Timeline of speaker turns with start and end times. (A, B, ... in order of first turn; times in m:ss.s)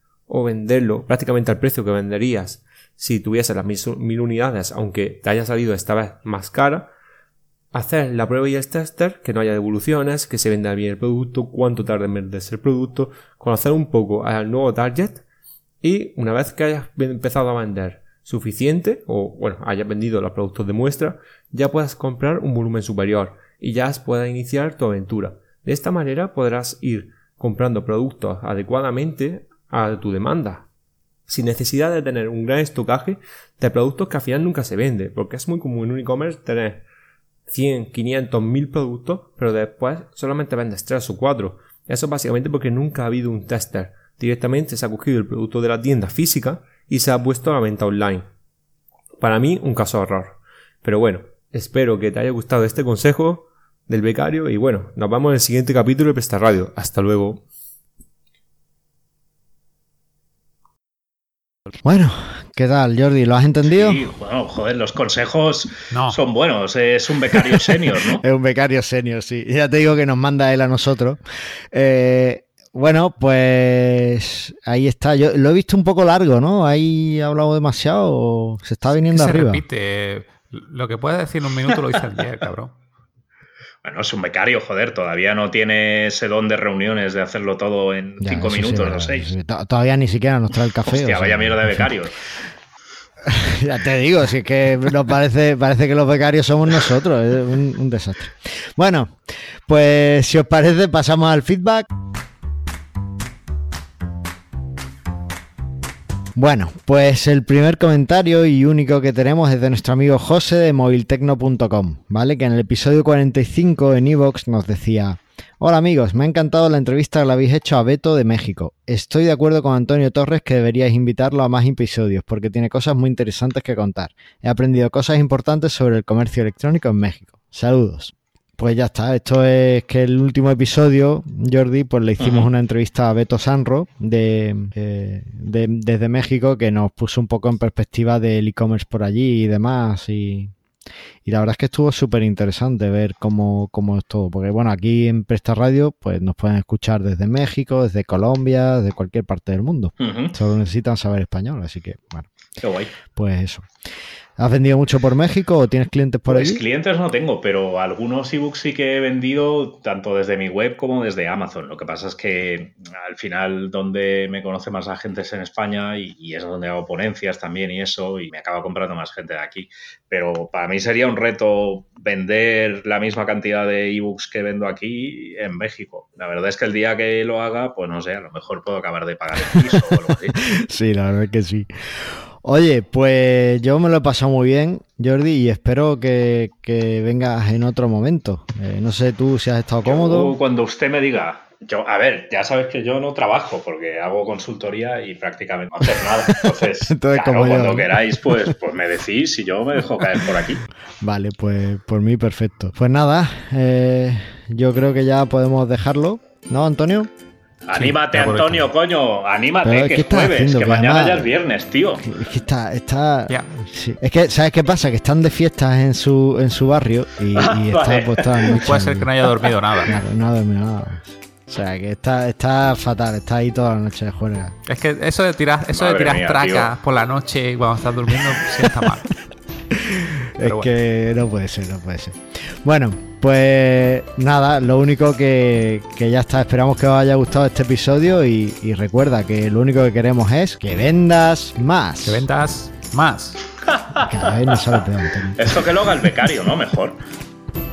0:00.3-0:06.9 A
0:07.7-0:15.2 A
0:15.8-0:30.7 A
0:31.3-0:36.8 A
0:37.5-0:48.3 A
0:49.2-0:57.4 A
1:01.8-1:04.0 B
1:03.6-1:08.2 C
1:05.9-1:06.2 D
1:08.2-1:19.6 B
1:19.1-1:22.8 D
1:23.8-1:29.3 C
1:28.2-1:31.9 B
1:30.8-1:32.2 C
1:33.2-1:41.9 B
1:46.4-2:20.5 B
2:12.2-2:12.5 C
2:21.2-2:32.3 B
2:30.0-2:30.4 C
2:32.6-2:33.0 C
2:33.1-2:33.7 B
2:34.4-2:36.6 B
2:36.3-3:00.4 C
3:00.4-3:10.4 B
3:09.8-3:20.6 C
3:16.4-3:18.5 B
3:21.0-3:27.1 B
3:27.7-3:32.1 C
3:27.7-3:28.7 D
3:29.6-3:31.3 B
3:32.0-3:39.3 B
3:37.4-3:38.6 C
3:38.5-3:40.0 D
3:39.8-3:44.6 B
3:44.7-3:49.1 D
3:45.7-3:46.7 C
3:49.7-4:02.3 B
3:50.4-3:50.7 D
4:02.0-4:03.5 D
4:03.6-4:04.8 C
4:04.0-4:05.6 B
4:05.4-4:07.0 C